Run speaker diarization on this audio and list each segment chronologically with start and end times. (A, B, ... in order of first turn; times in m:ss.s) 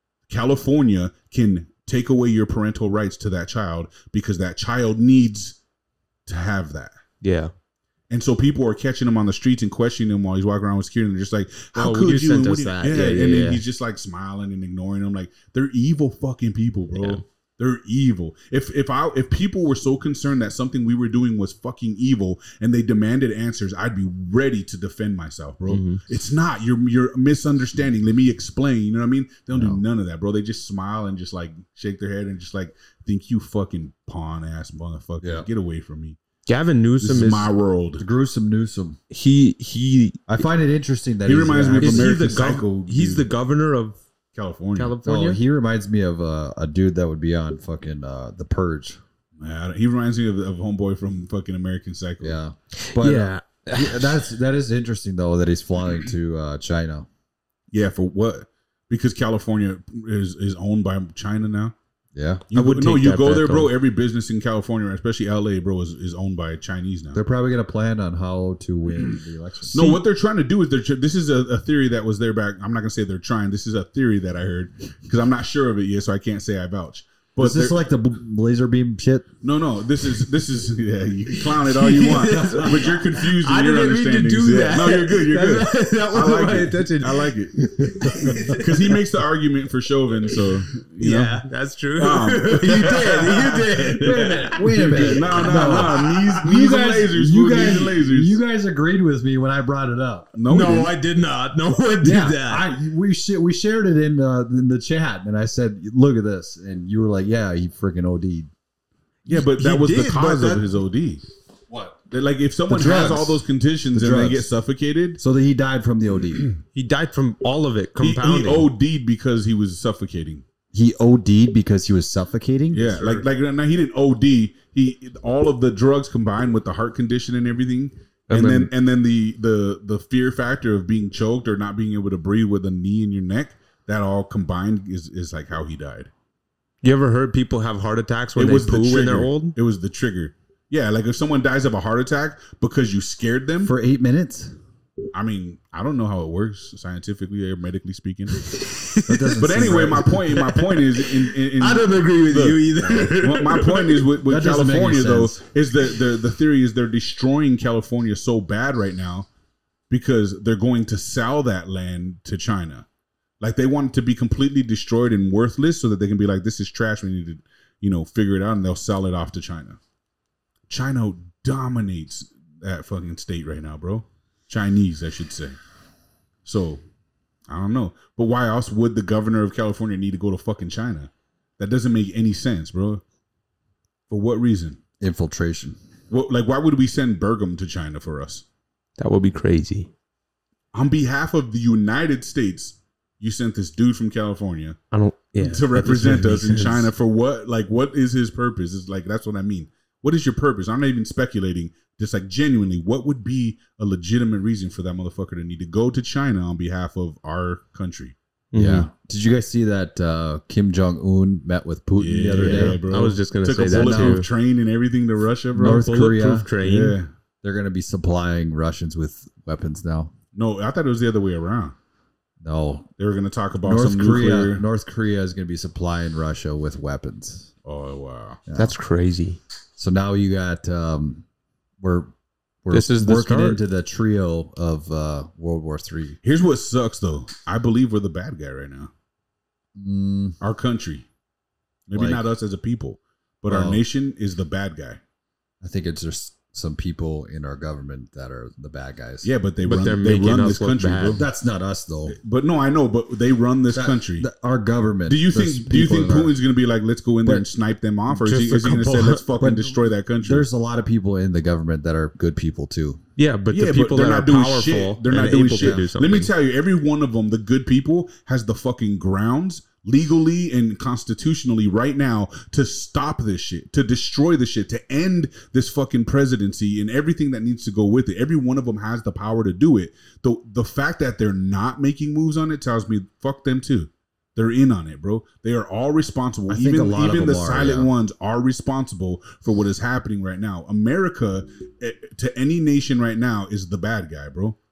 0:00.3-0:05.6 A
0:06.3-0:07.0 A
0:07.2-0:07.5 B
0:08.1-0:36.2 A
0:11.7-0:13.6 B
0:16.9-0:17.2 B
0:25.7-0:26.0 B
0:29.5-0:29.8 C
0:35.2-0:35.5 C
0:36.4-0:37.5 B
0:37.0-0:38.0 A
0:38.0-0:39.0 C
0:39.1-0:40.2 B
0:40.3-0:42.2 C
0:41.3-0:43.3 A
0:41.8-0:44.0 B
0:44.3-0:45.0 A
0:44.8-0:45.4 B
0:45.0-0:49.0 C
0:49.4-0:52.4 A
0:52.2-0:57.1 C
0:52.8-0:54.2 B
0:57.7-1:01.7 A
1:02.1-1:02.4 C
1:02.5-1:07.2 A
1:02.5-1:03.7 B
1:07.1-1:09.8 C
1:09.7-1:17.8 A
1:09.7-1:10.0 B
1:17.4-1:19.3 C
1:19.4-1:27.6 A
1:21.5-1:27.3 B
1:22.3-1:23.0 C
1:27.6-1:28.6 C
1:28.0-1:28.7 B
1:28.4-1:31.4 A
1:31.0-1:36.3 B
1:32.0-1:38.4 A
1:34.0-1:40.4 C
1:40.4-1:40.9 A
1:40.5-1:42.7 B
1:42.0-1:48.5 C
1:49.3-1:50.7 B
1:49.3-1:51.2 A
1:51.7-1:52.0 C
1:52.1-1:55.2 A
1:52.7-1:54.5 C
1:55.2-1:56.5 C
1:56.7-1:58.7 B
1:58.0-2:00.4 A
2:00.7-2:03.2 C
2:02.7-2:16.1 A
2:08.3-2:08.7 B
2:16.8-2:19.6 B
2:18.4-2:23.7 A
2:23.6-2:24.6 C
2:25.1-2:28.4 A
2:28.4-2:29.5 B
2:29.1-2:30.3 C
2:29.4-2:39.3 A
2:30.3-2:34.0 B
2:34.2-2:35.4 C
2:39.9-2:42.9 A
2:43.4-2:49.8 A
2:50.7-2:55.6 A
2:56.4-2:56.8 A
2:57.5-3:03.0 A
3:04.1-3:04.8 A
3:05.0-3:05.8 C
3:06.1-3:08.4 A
3:09.0-3:09.9 B
3:10.7-3:14.8 A
3:14.9-3:16.9 B
3:15.4-3:28.1 A
3:28.5-3:28.9 B
3:28.5-3:32.8 C
3:32.0-3:36.0 A
3:32.4-3:34.3 B
3:33.7-3:34.2 C
3:35.6-3:36.5 C
3:35.6-3:37.0 B
3:36.6-3:37.1 A
3:37.4-3:40.1 C
3:40.3-3:41.7 A
3:42.4-3:42.9 C
3:43.0-3:44.6 A
3:43.6-3:47.5 C
3:47.6-3:48.4 A
3:48.5-3:48.7 C
3:48.6-3:49.4 B
3:49.8-3:51.2 C
3:51.8-3:52.1 C
3:52.6-3:56.2 C
3:52.7-3:53.6 B
3:56.2-3:58.9 A
3:59.8-4:00.4 C
4:00.4-4:01.1 A
4:01.9-4:05.0 A
4:01.9-4:02.2 C
4:03.5-4:03.8 C
4:05.6-4:09.3 C
4:09.2-4:11.2 A
4:09.6-4:11.2 B
4:11.2-4:12.2 C
4:12.1-4:14.3 A
4:13.7-4:16.4 C
4:15.1-4:20.4 A
4:18.1-4:19.2 B
4:19.4-4:23.0 C
4:23.2-4:26.3 B
4:23.5-4:54.6 A
4:25.6-4:25.8 C
4:46.5-4:47.9 C